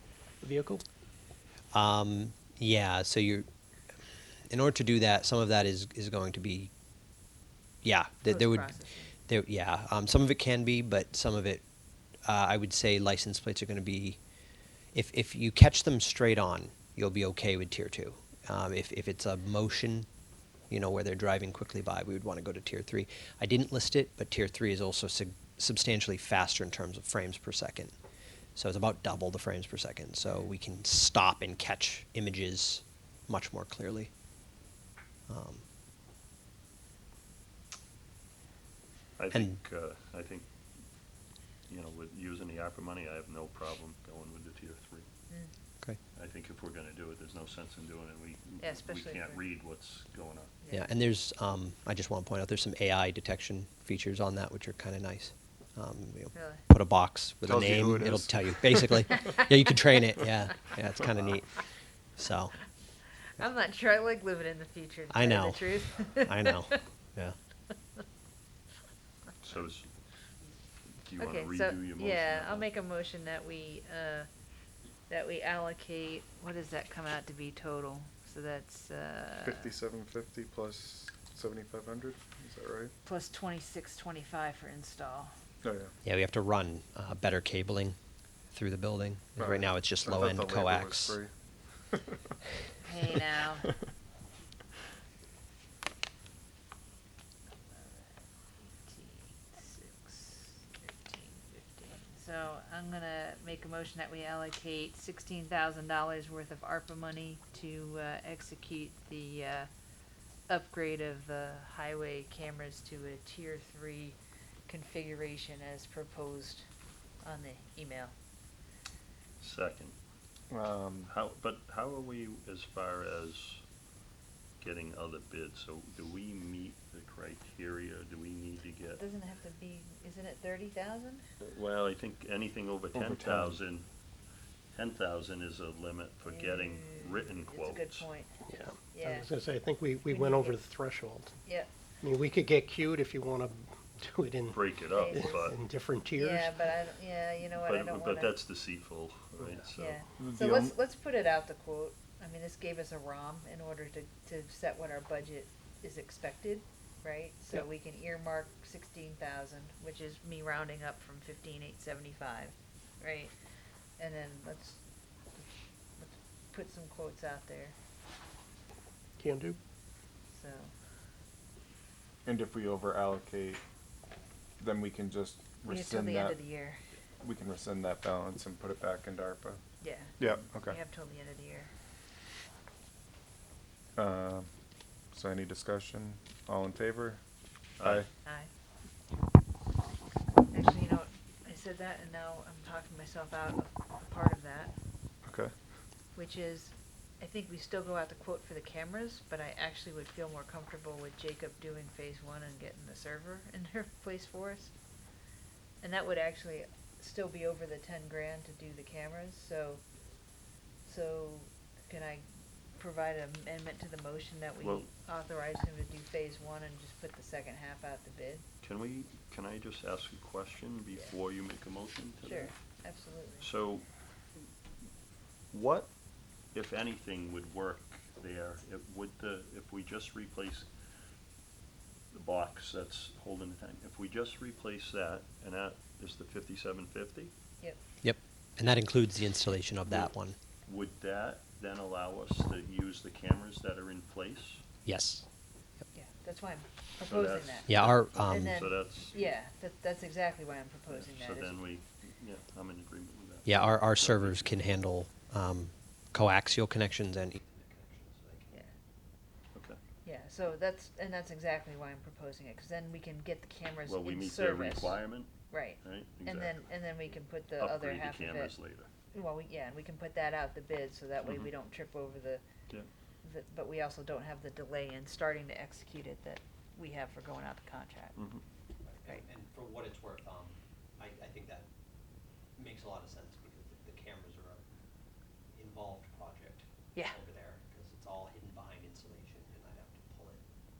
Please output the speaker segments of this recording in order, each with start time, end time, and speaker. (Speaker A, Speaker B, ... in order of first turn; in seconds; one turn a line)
Speaker A: 0.4-0.8
Speaker B: 1.7-3.5
Speaker B: 4.5-6.7
Speaker B: 7.8-11.6
Speaker C: 8.3-9.1
Speaker B: 12.2-14.2
Speaker B: 14.9-20.1
Speaker B: 20.7-27.9
Speaker B: 28.5-34.1
Speaker B: 35.3-35.6
Speaker D: 39.2-40.5
Speaker D: 41.7-45.0
Speaker D: 46.1-50.5
Speaker C: 48.6-49.4
Speaker C: 50.6-50.9
Speaker B: 50.7-61.6
Speaker C: 56.3-56.6
Speaker E: 57.4-58.9
Speaker B: 62.2-62.5
Speaker C: 63.4-66.8
Speaker B: 65.1-67.3
Speaker D: 69.4-69.9
Speaker D: 71.0-72.7
Speaker C: 71.2-74.3
Speaker C: 75.1-79.7
Speaker E: 79.4-82.9
Speaker C: 83.0-85.3
Speaker E: 85.6-85.9
Speaker B: 86.0-88.0
Speaker B: 88.5-91.2
Speaker E: 89.4-91.3
Speaker E: 91.9-92.2
Speaker C: 92.8-93.7
Speaker C: 97.6-109.7
Speaker C: 110.5-114.2
Speaker C: 114.7-116.7
Speaker C: 117.2-118.1
Speaker D: 119.4-119.9
Speaker E: 120.5-121.1
Speaker D: 121.1-123.6
Speaker D: 124.6-129.0
Speaker C: 128.9-131.2
Speaker D: 131.4-133.9
Speaker E: 132.9-133.6
Speaker D: 134.7-138.0
Speaker C: 136.2-138.3
Speaker A: 138.5-141.4
Speaker C: 138.9-139.3
Speaker C: 140.1-140.6
Speaker A: 142.0-146.6
Speaker D: 144.5-145.6
Speaker C: 144.9-145.5
Speaker C: 146.1-148.3
Speaker D: 147.4-150.0
Speaker C: 149.7-163.3
Speaker E: 150.2-150.8
Speaker C: 164.0-164.8
Speaker C: 166.0-167.7
Speaker A: 169.2-169.6
Speaker C: 170.3-170.7
Speaker E: 172.2-173.6
Speaker E: 174.6-176.4
Speaker C: 175.7-176.8
Speaker E: 177.2-179.6
Speaker C: 179.8-181.7
Speaker E: 180.2-180.8
Speaker E: 183.9-184.5
Speaker E: 185.1-187.2
Speaker D: 187.8-188.0
Speaker E: 187.8-188.1
Speaker C: 188.2-188.5
Speaker C: 190.5-194.7
Speaker E: 195.2-195.5
Speaker C: 196.2-204.7
Speaker C: 205.8-209.8
Speaker C: 210.8-212.2
Speaker C: 212.8-218.4
Speaker D: 214.6-214.9
Speaker D: 218.6-222.5
Speaker C: 222.2-223.5
Speaker D: 223.4-223.8
Speaker D: 225.5-225.9
Speaker D: 226.5-230.7
Speaker D: 232.1-237.3
Speaker B: 238.0-240.3
Speaker D: 240.7-244.6
Speaker B: 244.8-245.2
Speaker C: 245.9-251.5
Speaker D: 247.0-249.2
Speaker B: 247.7-248.6
Speaker D: 250.9-254.6
Speaker B: 253.4-257.4
Speaker F: 257.4-258.5
Speaker C: 260.0-265.0
Speaker D: 263.9-266.7
Speaker C: 265.5-268.5
Speaker D: 267.6-268.9
Speaker C: 269.1-272.4
Speaker D: 271.2-271.5
Speaker C: 273.2-278.2
Speaker D: 278.1-278.4
Speaker F: 279.1-281.6
Speaker F: 282.6-284.6
Speaker F: 285.7-286.6
Speaker F: 287.3-290.4